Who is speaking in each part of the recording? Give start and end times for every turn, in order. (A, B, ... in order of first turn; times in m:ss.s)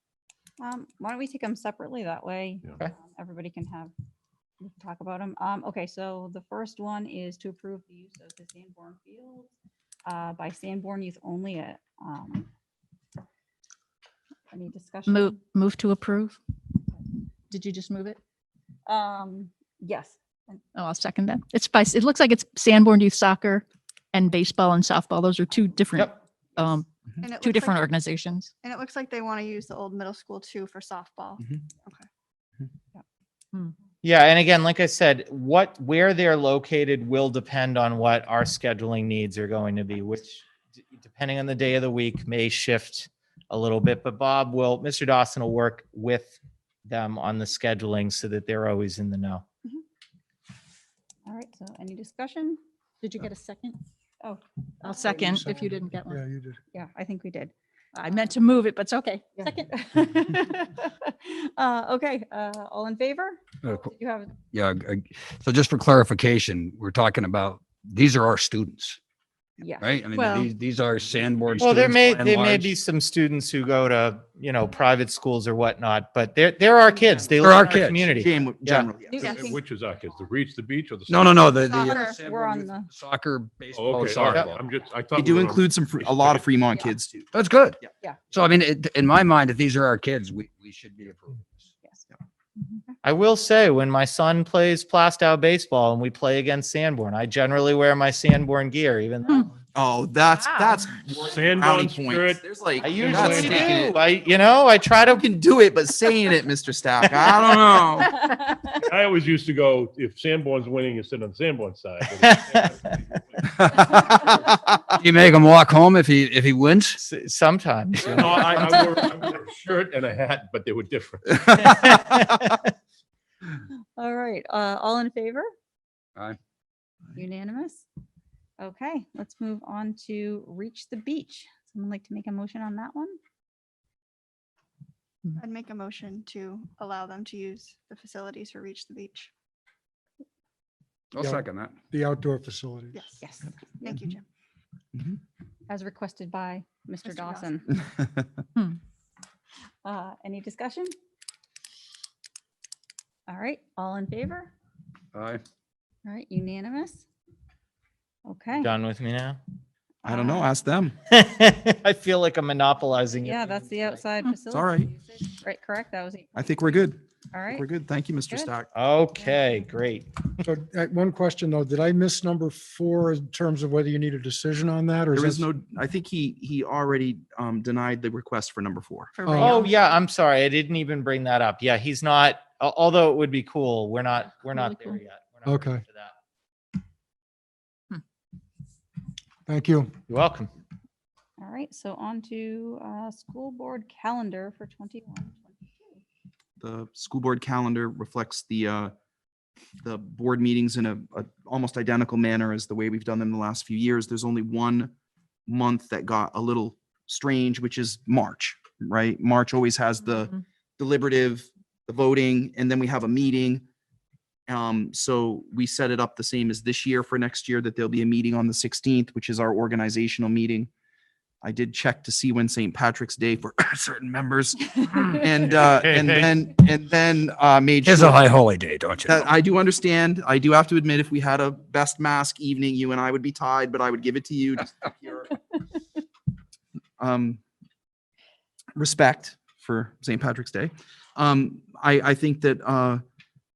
0:00.6-0:03.9 A
0:04.6-0:09.5 A
0:10.1-0:12.5 A
0:14.5-0:15.4 A
0:15.1-0:16.4 B
0:17.5-0:18.2 B
0:18.9-0:20.6 A
0:20.8-0:28.5 B
0:27.2-0:27.8 C
0:28.6-0:32.0 C
0:31.4-0:31.7 D
0:34.0-0:49.4 E
0:51.3-0:52.6 A
0:53.0-0:53.8 B
0:54.2-0:55.5 A
0:54.8-0:56.2 B
0:55.2-0:56.6 F
0:56.7-0:57.5 A
0:58.0-0:59.4 B
0:59.4-1:04.3 A
1:04.5-1:09.0 G
1:09.6-1:10.0 A
1:09.8-1:12.7 G
1:10.1-1:10.5 B
1:11.0-1:11.7 H
1:11.6-1:18.9 E
1:17.4-1:18.1 G
1:18.1-1:19.3 D
1:19.1-1:19.5 A
1:19.2-1:21.6 H
1:21.1-1:24.6 G
1:21.7-1:22.2 C
1:21.9-1:22.9 A
1:23.7-1:26.6 H
1:25.2-1:27.3 D
1:27.3-1:27.8 G
1:28.3-1:31.7 G
1:33.0-1:39.5 E
1:39.8-1:44.0 D
1:41.1-1:43.4 H
1:42.8-1:45.3 E
1:45.2-1:48.1 D
1:47.9-1:48.7 A
1:48.8-1:53.4 H
1:52.2-1:52.7 E
1:53.5-1:54.2 G
1:55.0-1:57.0 G
1:57.0-1:59.1 E
1:58.0-2:01.8 H
2:01.6-2:02.6 E
2:04.0-2:05.5 A
2:07.2-2:07.8 A
2:08.6-2:13.2 A
2:15.4-2:19.3 C
2:21.1-2:21.8 G
2:21.2-2:23.1 F
2:22.9-2:23.2 C
2:23.2-2:23.6 A
2:23.8-2:24.2 C
2:25.7-2:27.7 A
2:29.8-2:30.9 A
2:33.3-2:34.5 A
2:35.1-2:35.4 G
2:36.1-2:37.0 A
2:38.3-2:38.7 A
2:38.6-2:39.4 E
2:40.0-2:41.0 D
2:40.1-2:40.5 A
2:41.1-2:44.0 E
2:43.2-2:47.7 A
2:44.5-2:44.9 D
2:46.4-2:48.7 D
2:48.7-2:50.3 E
2:50.4-2:55.5 F
2:55.1-2:59.2 D
2:59.2-2:59.8 B
2:59.3-2:59.6 F
2:59.4-3:06.2 E
3:04.5-3:05.0 B
3:05.5-3:05.8 F
3:09.5-3:09.9 F
3:10.1-3:10.5 E
3:11.4-3:16.0 A
3:16.6-3:18.9 D
3:19.8-3:24.9 D
3:25.5-3:33.6 D
3:34.5-3:40.7 D
3:41.4-3:48.3 D
3:45.6-3:46.3 E
3:47.8-3:49.3 G
3:49.0-3:55.4 D
3:57.0-3:57.4 D
3:58.8-4:03.0 D